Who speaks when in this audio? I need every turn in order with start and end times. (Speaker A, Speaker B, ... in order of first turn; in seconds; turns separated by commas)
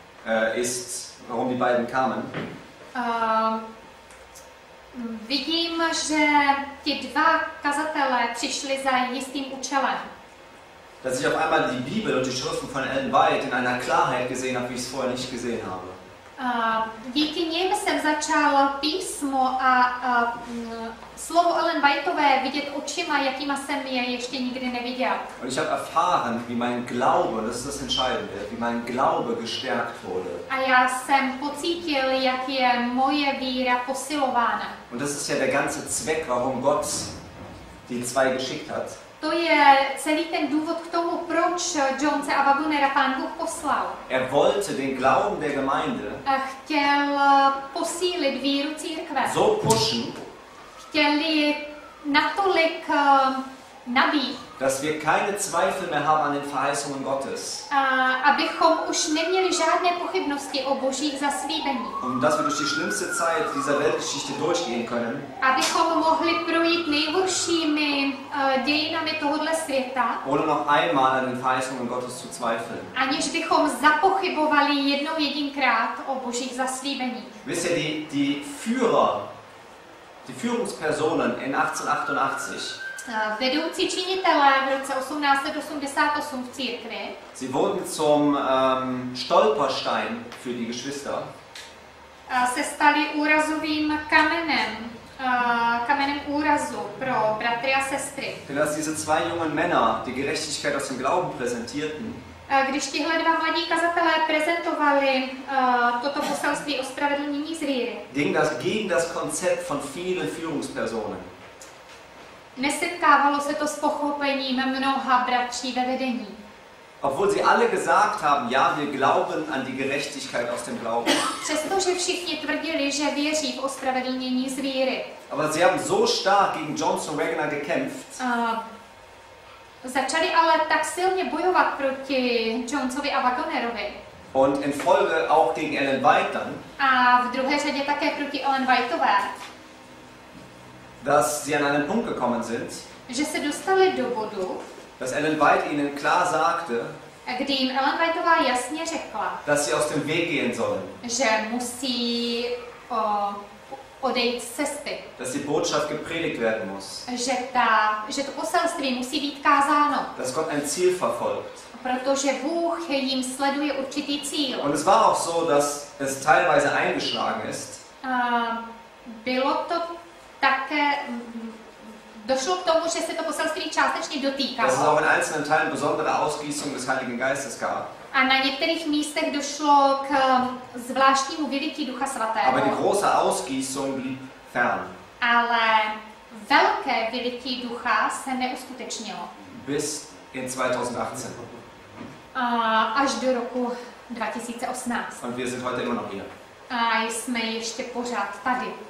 Speaker A: 0.2-2.4, Speaker B: 2.9-3.6, Speaker B: 4.9-10.1, Speaker A: 11.0-16.0, Speaker B: 16.4-25.2, Speaker A: 25.4-30.4, Speaker B: 30.5-34.8, Speaker A: 34.9-37.1, Speaker A: 37.9-39.0, Speaker B: 39.2-44.0, Speaker A: 44.1-46.2, Speaker B: 46.2-49.4, Speaker A: 49.2-50.2, Speaker B: 50.9-54.4, Speaker A: 54.6-57.7, Speaker B: 57.7-62.0, Speaker A: 62.0-65.3, Speaker B: 65.4-70.2, Speaker A: 70.2-72.9, Speaker B: 72.9-77.4, Speaker A: 77.4-79.2, Speaker A: 80.2-82.8, Speaker B: 83.0-87.2, Speaker A: 87.3-91.3, Speaker B: 92.3-98.4, Speaker A: 98.5-102.2, Speaker B: 102.5-108.0, Speaker A: 108.1-111.3, Speaker B: 112.5-116.4, Speaker A: 117.0-121.3, Speaker B: 121.4-125.1, Speaker A: 125.3-128.2, Speaker B: 128.2-128.6, Speaker B: 129.8-134.0, Speaker A: 134.3-136.6, Speaker B: 136.8-139.3, Speaker A: 141.0-142.8, Speaker B: 143.1-144.6, Speaker A: 145.0-146.9, Speaker B: 147.2-149.4, Speaker A: 149.4-151.0, Speaker B: 151.0-155.0, Speaker A: 155.2-157.0, Speaker B: 157.1-160.1, Speaker A: 160.1-161.7, Speaker B: 161.7-164.7, Speaker A: 164.6-167.8, Speaker B: 168.0-169.8, Speaker B: 170.4-174.9, Speaker A: 174.6-177.9, Speaker B: 178.1-182.8, Speaker A: 182.4-184.9, Speaker B: 185.2-189.3, Speaker A: 189.5-191.5, Speaker B: 192.3-195.2, Speaker A: 195.2-196.3, Speaker B: 196.7-198.8